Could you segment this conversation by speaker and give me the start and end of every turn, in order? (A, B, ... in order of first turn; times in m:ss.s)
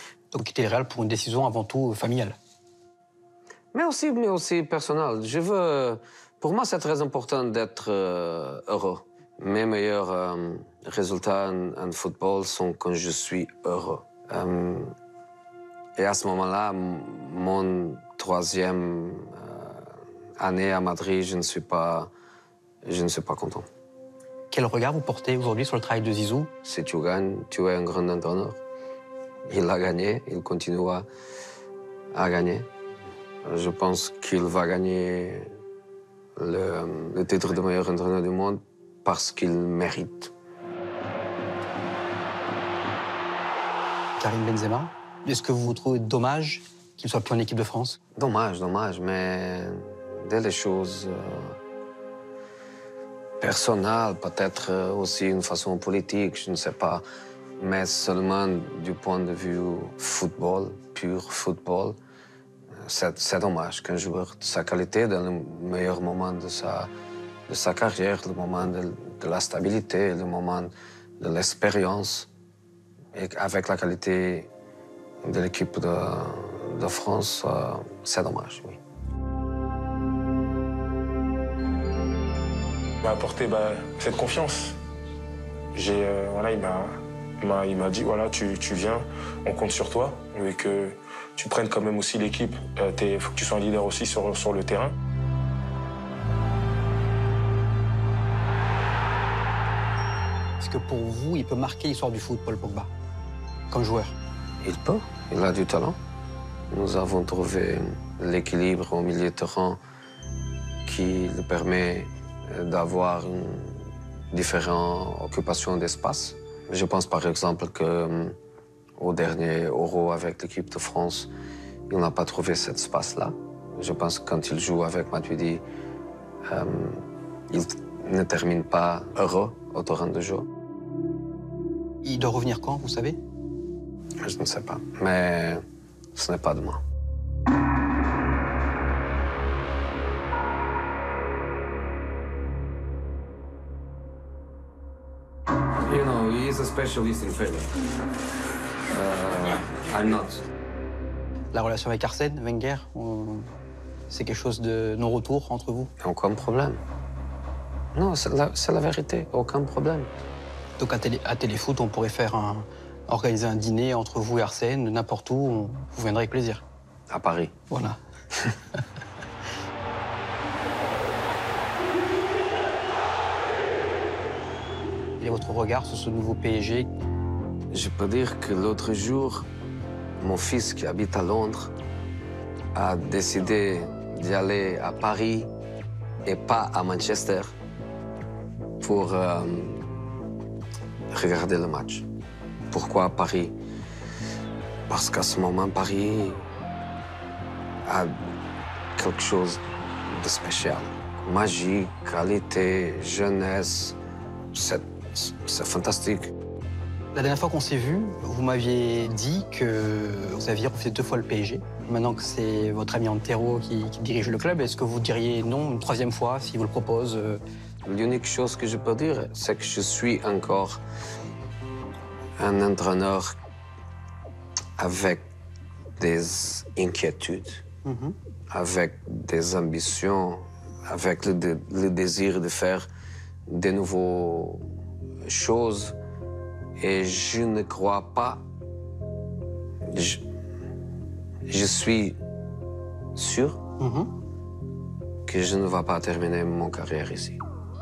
0:00.3-0:02.4 A
0:03.7-0:14.9 B
0:16.0-0:22.1 B
0:22.8-0:23.7 B
0:24.5-0:26.5 A
0:26.6-0:28.6 B
0:29.4-0:31.1 B
0:32.1-0:32.7 B
0:33.4-0:35.5 B
0:36.4-0:40.3 B
0:44.2-0:48.0 A
0:48.2-0:51.6 B
0:53.4-0:57.0 B
0:57.6-1:02.0 B
1:02.8-1:06.9 B
1:07.5-1:12.3 B
1:13.1-1:14.5 B
1:15.2-1:18.8 B
1:23.0-1:24.8 C
1:25.7-1:34.9 C
1:40.6-1:42.9 A
1:43.7-1:44.2 A
1:44.6-1:46.0 B
1:46.7-1:49.8 B
1:50.8-1:58.4 B
1:59.0-2:01.3 B
2:01.9-2:05.6 B
2:06.4-2:10.5 B
2:12.0-2:13.2 A
2:14.2-2:15.6 B
2:16.1-2:16.8 B
2:25.8-2:27.7 B
2:28.9-2:30.4 B
2:31.5-2:33.5 A
2:34.1-2:35.9 A
2:36.0-2:36.8 B
2:37.9-2:40.1 B
2:40.8-2:46.6 A
2:47.1-2:47.5 B
2:47.7-2:48.0 A
2:55.2-2:56.9 A
2:57.7-2:59.5 B
3:00.2-3:01.7 B
3:02.7-3:05.5 B
3:06.2-3:07.5 B
3:08.8-3:09.9 B
3:11.1-3:12.0 B
3:12.7-3:13.5 B
3:14.9-3:16.5 B
3:17.8-3:18.1 B
3:19.0-3:24.0 B
3:24.5-3:26.3 B
3:27.1-3:37.4 A
3:37.8-3:40.8 B
3:42.4-3:43.4 B
3:44.8-3:45.3 B
3:46.0-3:47.6 B
3:47.8-3:48.2 A
3:48.5-3:52.9 B
3:53.5-3:54.6 B
3:55.2-3:56.0 B
3:56.8-3:58.4 B
3:59.9-4:00.2 B
4:01.5-4:02.2 B
4:03.1-4:03.6 B
4:03.8-4:04.1 A
4:05.2-4:07.4 B